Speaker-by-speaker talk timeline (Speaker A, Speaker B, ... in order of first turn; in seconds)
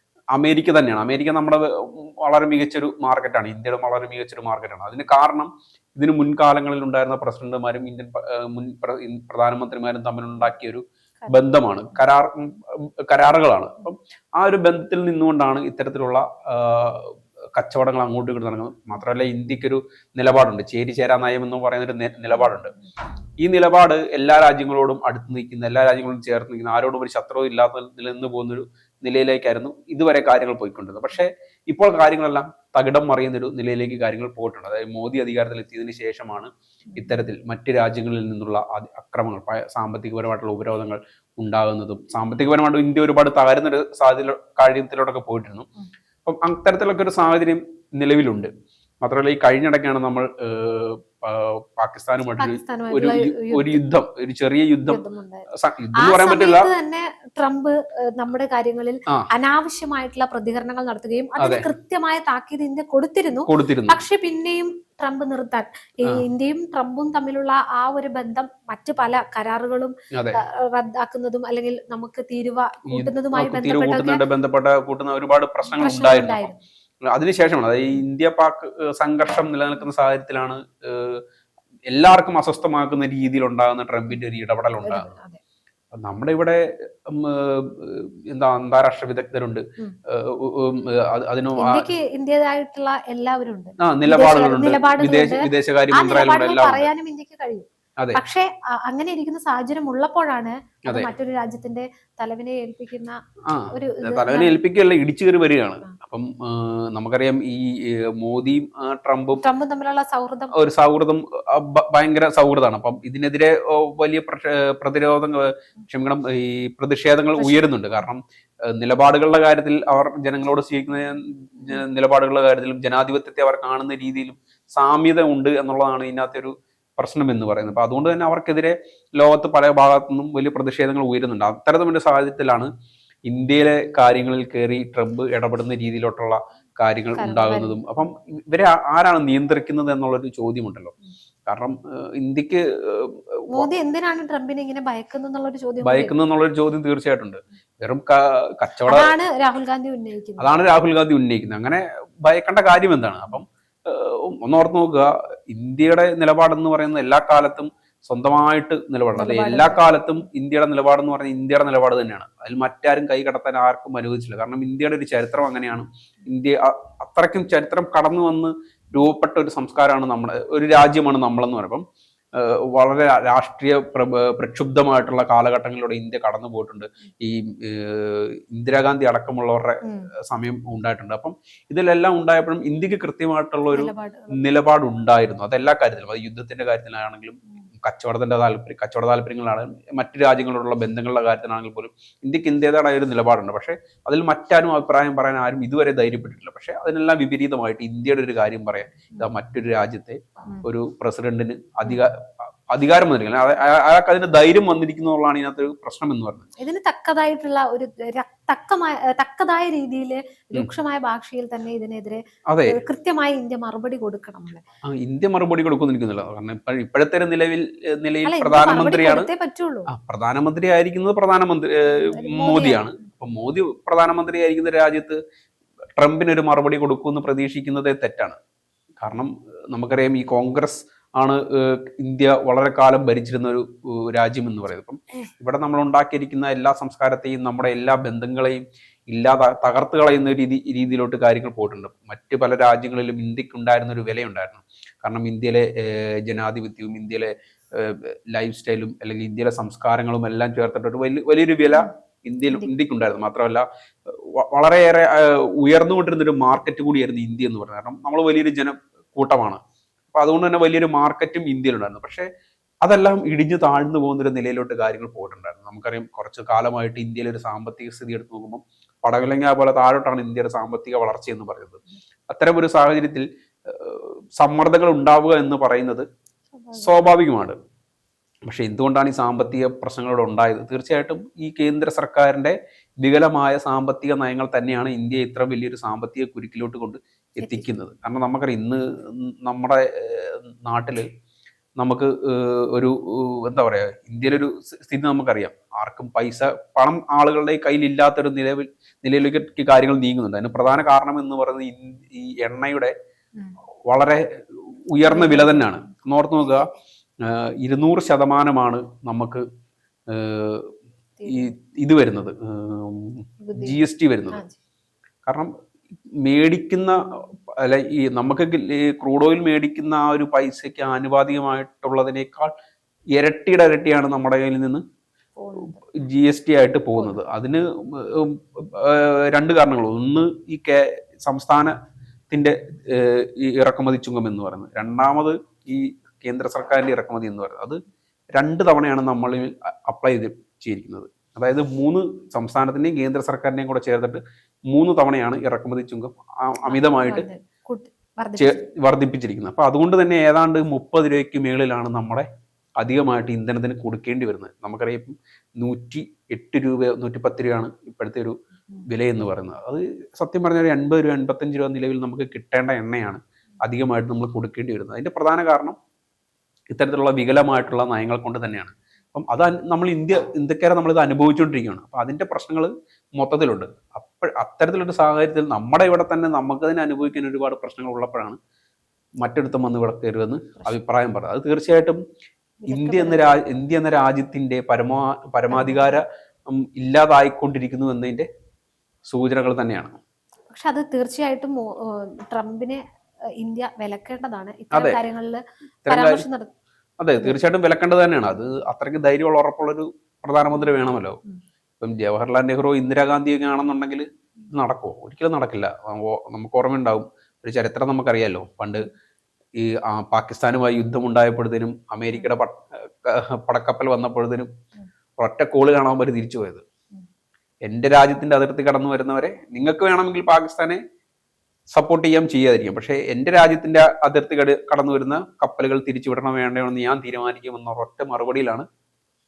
Speaker A: 0.3-22.7, 23.4-45.7, 46.2-48.5, 49.0-55.0, 55.5-56.7, 61.4-61.7, 63.4-64.0, 70.1-70.4, 72.9-76.5, 77.1-81.2, 81.9-85.1, 85.9-91.9, 93.8-96.9, 103.5-109.4, 110.5-132.7, 133.3-140.9, 141.5-143.7, 145.8-149.1, 150.4-171.8, 172.3-206.5, 212.5-212.8, 214.8-219.3, 219.9-225.2, 226.0-228.4, 229.0-259.6, 260.1-262.3, 262.8-276.1, 276.8-277.6, 278.5-291.0, 291.8-302.9, 303.9-306.7, 307.2-309.4, 310.1-310.7, 311.3-314.4, 315.2-315.5, 316.2-322.5, 323.2-324.8, 325.9-331.8, 332.3-337.8, 338.4-344.2, 344.7-347.2, 348.4-352.3, 352.8-358.4, 358.9-365.8, 366.7-378.4, 379.2-382.0, 382.7-388.3, 389.1-389.9, 394.7-395.0, 395.9-396.2, 397.0-401.2, 401.8-408.9, 409.6-414.5, 415.2-416.6, 417.6-420.8, 421.7-428.6
Speaker B: 52.4-53.8, 54.9-55.5, 56.0-74.2, 75.7-76.6, 84.8-85.4, 91.6-103.2, 103.7-104.6, 109.4-110.6, 117.4-117.7, 137.2-137.8, 143.5-146.1, 148.9-150.5, 159.2-159.9, 179.8-180.1, 183.7-184.5, 206.6-214.6, 218.2-219.9, 221.9-222.8, 276.5-277.1, 287.4-287.7, 305.0-305.8, 311.2-311.5, 313.4-313.8, 325.4-325.8, 346.6-348.6, 382.6-383.4, 385.5-385.9, 390.5-392.8, 393.4-396.5